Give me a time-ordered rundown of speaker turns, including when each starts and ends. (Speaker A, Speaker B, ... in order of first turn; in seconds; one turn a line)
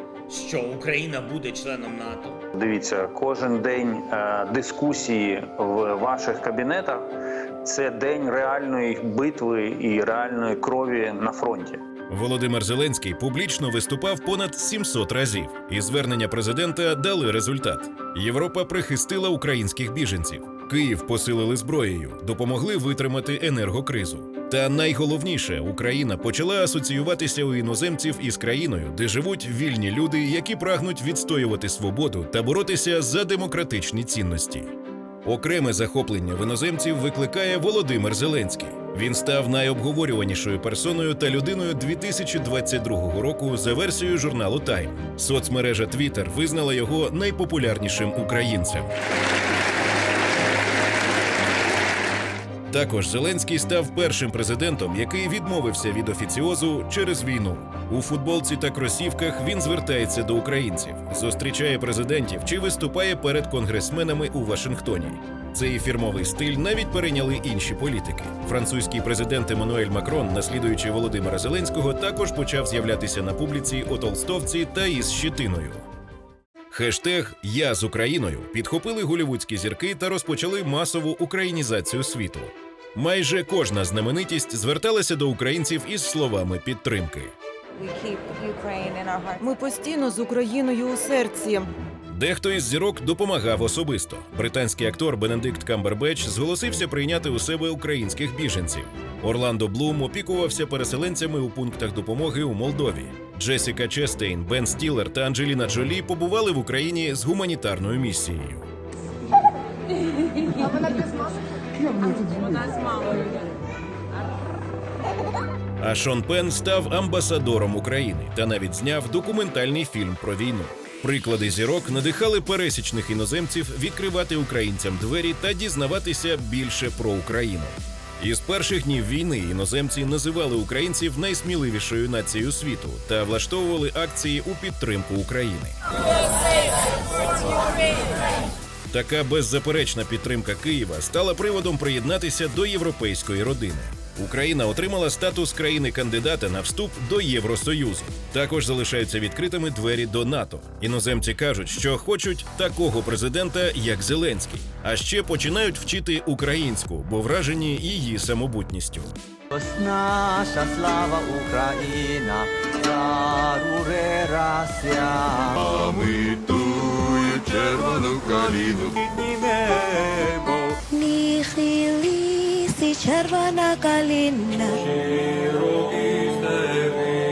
Speaker A: 0.3-2.4
Speaker B: 2.5-7.0
Speaker B: 7.6-11.8
Speaker C: 12.1-34.7
Speaker C: 35.2-48.9
Speaker C: 52.7-75.8
Speaker C: 76.7-87.3
Speaker D: 87.8-91.7
Speaker C: 92.1-108.7
Speaker C: 115.8-135.8
Speaker C: 138.9-159.2
Speaker E: 159.5-165.7
Speaker F: 165.7-169.2
Speaker E: 169.3-170.6
Speaker G: 170.9-174.8